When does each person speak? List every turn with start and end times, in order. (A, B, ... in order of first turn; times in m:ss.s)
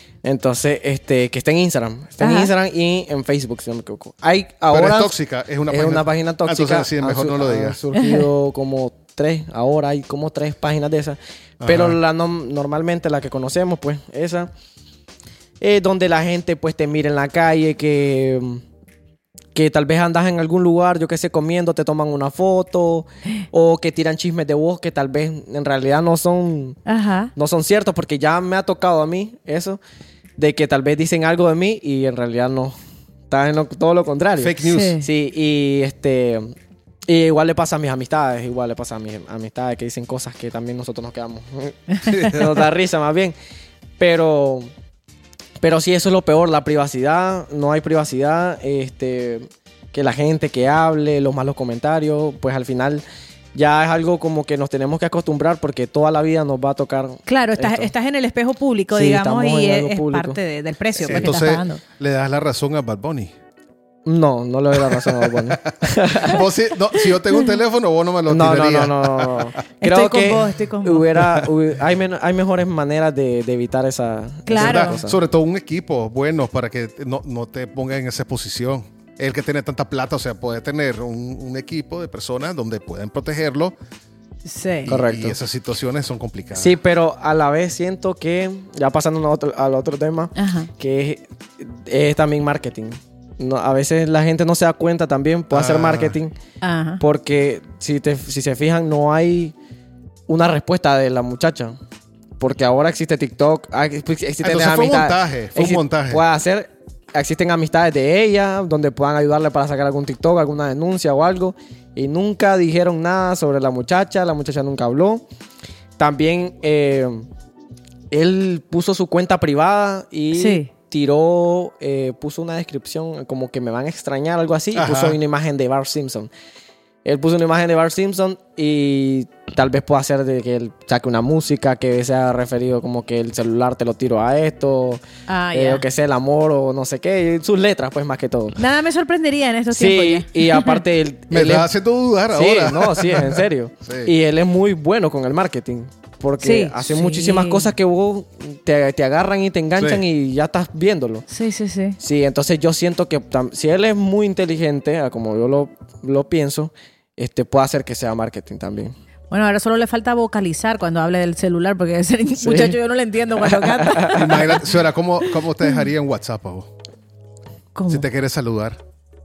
0:00.2-0:05.2 A
0:02.2-0:02.5 B
0:04.7-0:07.8 C
0:05.7-0:14.5 A
0:08.0-0:08.2 B
0:11.6-0:12.0 C
0:15.6-0:18.6 A
0:19.6-0:26.8 A
0:26.9-0:27.3 B
0:27.4-0:29.8 A
0:30.4-0:32.8 A
0:33.3-0:36.6 A
0:34.4-0:35.0 C
0:34.6-0:35.0 B
0:37.1-0:43.4 A
0:42.1-0:42.4 C
0:44.0-0:44.7 A
0:45.6-0:53.0 A
0:53.6-0:57.9 A
0:57.3-1:01.8 B
0:58.9-1:00.4 A
1:01.0-1:01.4 A
1:01.0-1:03.3 C
1:04.0-1:06.4 A
1:04.8-1:09.6 C
1:08.3-1:15.2 A
1:09.8-1:11.2 B
1:14.5-1:15.0 B
1:14.6-1:23.8 C
1:24.5-1:24.9 B
1:24.9-1:26.8 C
1:24.9-1:25.4 A
1:26.5-1:36.3 A
1:30.4-1:30.7 B
1:35.5-1:36.2 C
1:36.6-1:37.0 B
1:37.0-1:39.6 A
1:40.3-1:41.8 A
1:42.4-1:55.2 A
1:44.4-1:46.2 C
1:56.0-1:57.3 A
1:58.1-2:06.3 A
2:00.3-2:00.7 B
2:04.8-2:05.2 C
2:07.0-2:15.0 A
2:15.3-2:15.8 B
2:15.5-2:18.6 A
2:18.6-2:20.8 B
2:19.7-2:21.7 A
2:21.3-2:24.1 C
2:22.3-2:31.2 A
2:26.4-2:27.7 B
2:29.8-2:30.0 C
2:31.3-2:32.0 B
2:32.0-2:38.9 A
2:39.3-2:44.6 B
2:42.4-2:42.8 A
2:43.4-2:44.4 A
2:44.1-2:46.7 C
2:47.8-2:48.1 B
2:47.9-2:48.8 C